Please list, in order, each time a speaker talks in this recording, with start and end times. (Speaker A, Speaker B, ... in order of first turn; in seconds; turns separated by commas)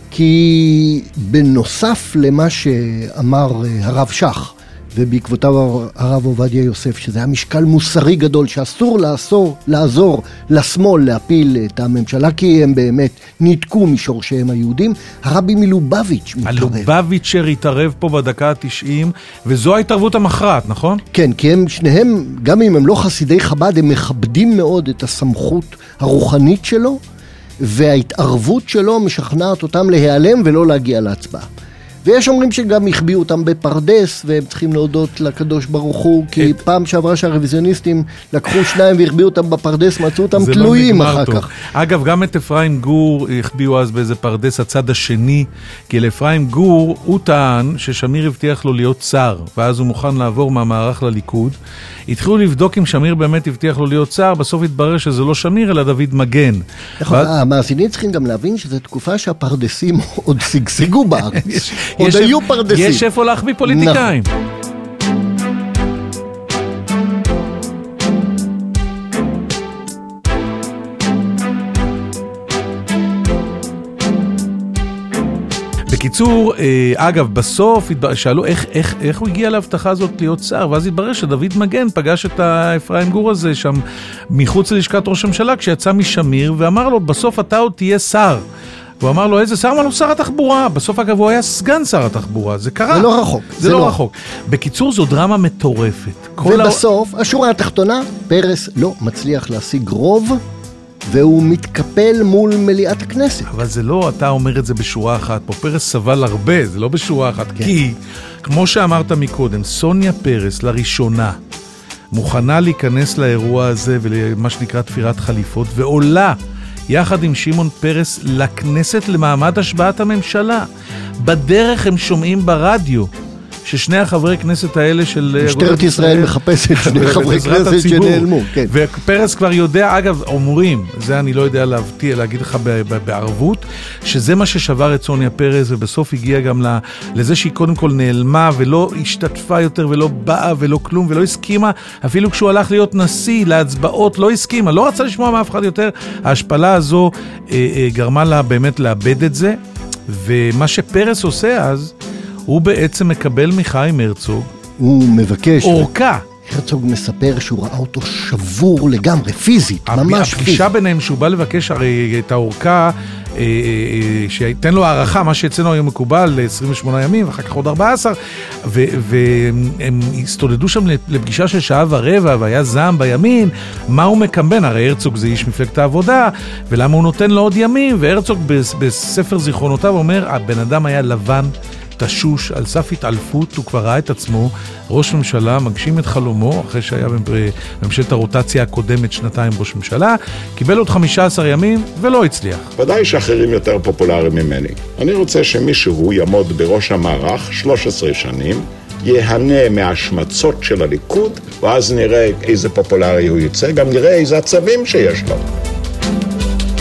Speaker A: 0.1-16.9, Speaker B: 16.4-21.0, Speaker A: 21.1-27.0, Speaker A: 27.6-31.5, Speaker A: 32.0-41.5, Speaker B: 36.4-36.6, Speaker B: 40.3-51.6, Speaker B: 52.1-57.3, Speaker A: 57.0-63.0, Speaker B: 61.3-64.3, Speaker A: 63.6-64.1, Speaker B: 75.9-88.4, Speaker B: 89.0-96.8, Speaker A: 92.9-94.0, Speaker A: 96.4-100.4, Speaker A: 101.1-103.5, Speaker B: 103.5-111.4, Speaker B: 112.1-116.4, Speaker B: 116.9-120.7, Speaker B: 121.2-123.1, Speaker B: 123.6-149.6, Speaker A: 125.4-128.7, Speaker B: 150.1-151.9, Speaker B: 152.5-154.5, Speaker A: 154.8-155.9, Speaker B: 155.6-156.2, Speaker A: 156.4-160.7, Speaker B: 159.9-192.7, Speaker C: 192.8-205.4